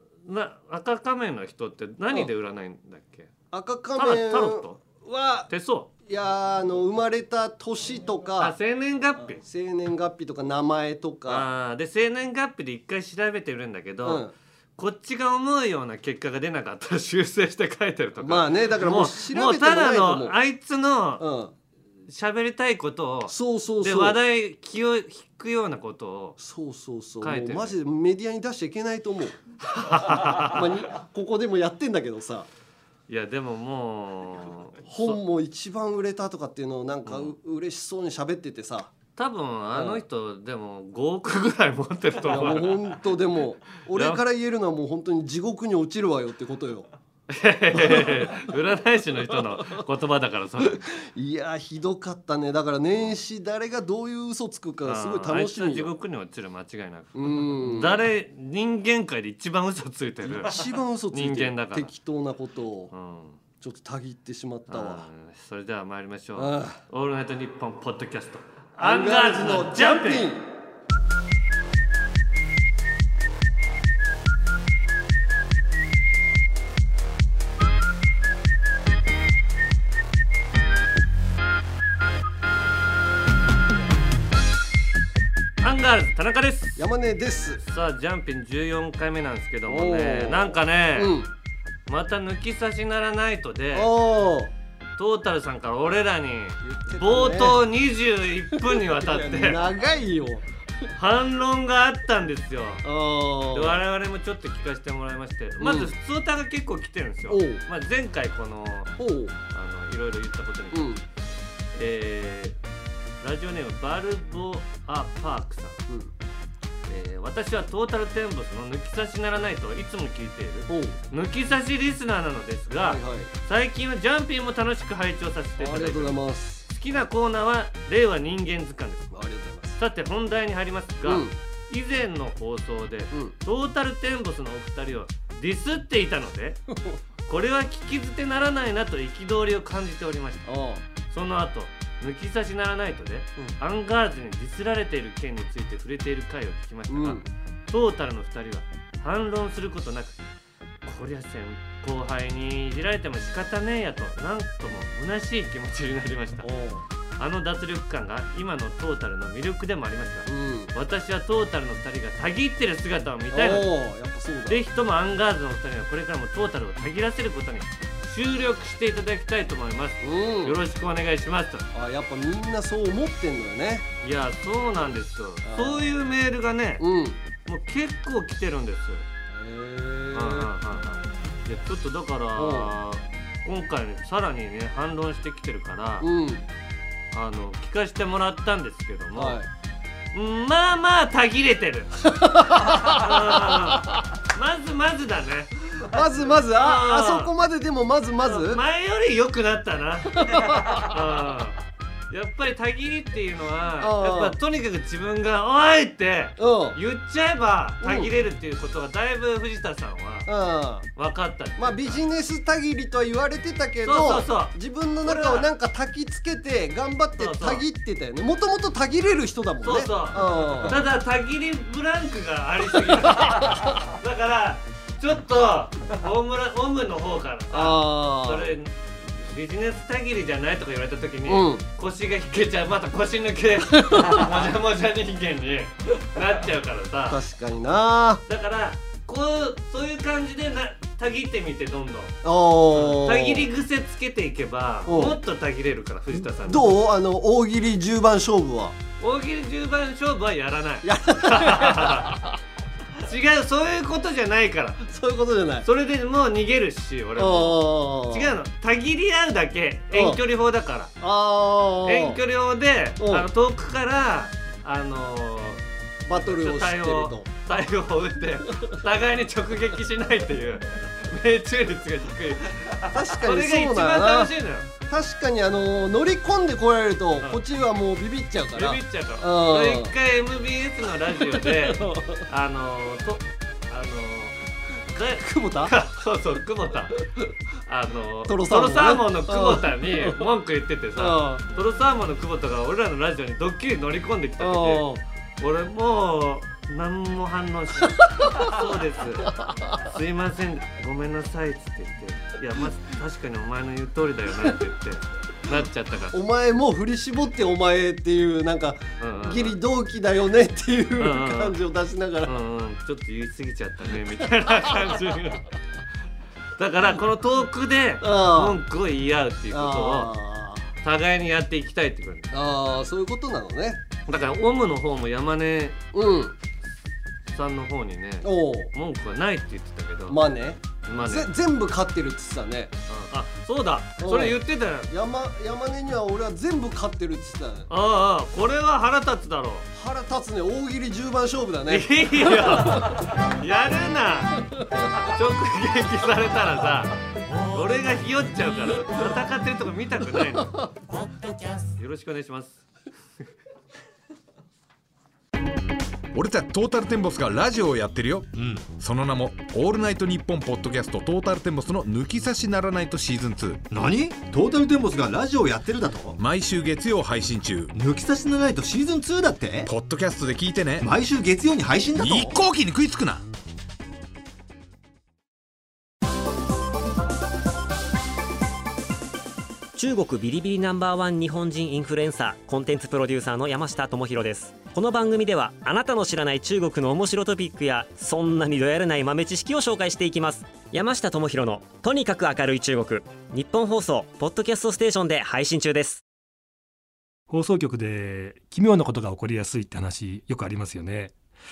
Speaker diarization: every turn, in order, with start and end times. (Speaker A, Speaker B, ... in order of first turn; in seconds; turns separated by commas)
Speaker A: 0.2-3.3, Speaker B: 3.5-5.5, Speaker A: 4.0-4.8, Speaker A: 5.5-5.9, Speaker B: 6.0-8.6, Speaker A: 8.4-9.4, Speaker B: 9.3-11.5, Speaker A: 11.2-14.2, Speaker B: 14.0-14.3, Speaker A: 14.8-21.2, Speaker B: 18.2-20.4, Speaker B: 21.2-21.5, Speaker A: 22.1-26.4, Speaker B: 23.3-24.2, Speaker B: 26.4-29.4, Speaker A: 27.2-27.8, Speaker A: 29.7-30.6, Speaker B: 30.1-32.5, Speaker A: 33.1-35.2, Speaker B: 34.9-38.9, Speaker A: 37.0-37.3, Speaker A: 39.1-43.0, Speaker B: 39.7-40.0, Speaker B: 42.2-46.9, Speaker A: 43.9-44.2, Speaker A: 47.3-50.8, Speaker B: 47.7-48.5, Speaker B: 50.6-55.9, Speaker A: 54.8-61.9, Speaker B: 57.1-58.0, Speaker B: 60.2-62.9, Speaker A: 62.9-63.4, Speaker B: 63.6-65.0, Speaker A: 64.7-70.3, Speaker B: 66.3-66.8, Speaker B: 68.8-70.4, Speaker A: 85.6-86.9, Speaker B: 86.8-87.6, Speaker A: 87.6-91.1, Speaker B: 89.7-91.3, Speaker A: 91.9-93.9, Speaker B: 93.7-94.5, Speaker A: 95.0-99.6, Speaker B: 96.6-97.6, Speaker B: 98.6-100.5, Speaker A: 100.9-102.8, Speaker B: 102.8-103.8, Speaker A: 103.5-109.0, Speaker B: 105.6-105.9, Speaker B: 107.3-107.6, Speaker B: 109.0-109.3, Speaker A: 109.5-110.9, Speaker B: 110.7-111.0, Speaker A: 111.7-112.6, Speaker A: 113.2-115.8, Speaker A: 116.9-129.2, Speaker B: 120.7-121.0, Speaker B: 122.8-123.3, Speaker B: 125.6-126.6, Speaker B: 129.1-129.8, Speaker A: 129.7-136.6, Speaker B: 131.0-131.3, Speaker B: 136.7-137.0, Speaker A: 137.3-140.5, Speaker B: 140.4-140.8, Speaker A: 141.1-150.2, Speaker B: 146.9-147.3, Speaker A: 150.8-156.5, Speaker B: 156.4-156.8, Speaker A: 157.2-163.7, Speaker B: 160.2-160.7, Speaker B: 163.3-164.6, Speaker A: 164.5-171.7, Speaker B: 170.0-170.6, Speaker B: 171.7-173.9, Speaker A: 174.0-176.8, Speaker B: 175.4-176.0, Speaker B: 176.8-177.2, Speaker A: 177.4-179.1, Speaker B: 179.3-180.5, Speaker A: 180.1-186.1, Speaker B: 182.3-182.7, Speaker B: 186.0-186.4, Speaker A: 187.1-189.4, Speaker B: 189.1-189.5, Speaker A: 190.1-197.3, Speaker B: 192.0-193.8, Speaker B: 195.9-198.6, Speaker A: 198.2-201.6, Speaker B: 200.2-200.9, Speaker A: 202.1-210.3, Speaker B: 203.8-204.4, Speaker B: 206.4-206.8, Speaker B: 207.8-208.1, Speaker B: 210.3-210.9, Speaker A: 210.9-212.0, Speaker B: 211.6-220.8, Speaker A: 213.8-215.5, Speaker A: 217.2-217.6, Speaker A: 219.6-237.2, Speaker B: 222.9-223.6, Speaker B: 227.5-228.5, Speaker B: 231.2-231.6, Speaker B: 233.8-234.3, Speaker B: 237.1-238.2, Speaker A: 238.3-242.2, Speaker B: 242.2-243.5, Speaker A: 242.7-246.7, Speaker B: 244.8-245.2, Speaker B: 246.1-248.8, Speaker A: 249.0-252.2, Speaker B: 250.8-252.3, Speaker A: 252.9-254.8, Speaker B: 254.8-255.7, Speaker A: 255.6-260.9, Speaker B: 257.1-258.4, Speaker B: 259.9-260.2, Speaker B: 261.0-262.2, Speaker A: 261.8-274.7, Speaker B: 263.0-263.3, Speaker B: 266.1-267.3, Speaker B: 272.8-274.3, Speaker B: 274.9-279.9, Speaker A: 278.5-284.4, Speaker B: 281.2-282.2, Speaker A: 284.9-287.0, Speaker B: 285.2-285.7, Speaker A: 287.6-294.9, Speaker B: 288.3-290.3, Speaker B: 291.0-291.4, Speaker B: 294.4-295.0, Speaker A: 295.4-306.2, Speaker B: 298.0-298.6, Speaker B: 299.4-299.8, Speaker B: 306.1-312.3, Speaker A: 309.0-309.6, Speaker A: 311.0-311.6, Speaker A: 312.2-315.4, Speaker A: 316.6-320.1, Speaker B: 318.0-318.6, Speaker B: 319.5-320.7, Speaker A: 320.8-322.3, Speaker B: 322.3-323.8, Speaker A: 324.1-325.8, Speaker B: 325.9-326.4, Speaker A: 327.3-330.2, Speaker B: 328.2-328.7, Speaker B: 330.1-332.7, Speaker A: 330.8-331.3, Speaker A: 332.9-334.9, Speaker B: 334.0-337.7, Speaker A: 337.7-339.7, Speaker B: 339.7-343.0, Speaker A: 341.7-350.6, Speaker B: 350.4-350.6, Speaker A: 351.7-352.6, Speaker C: 356.1-363.6, Speaker D: 358.3-358.6, Speaker D: 363.7-366.2, Speaker C: 366.2-367.7, Speaker D: 367.7-369.7, Speaker C: 369.7-370.9, Speaker D: 370.8-372.4, Speaker C: 372.0-373.2, Speaker E: 379.7-396.0, Speaker F: 397.3-401.1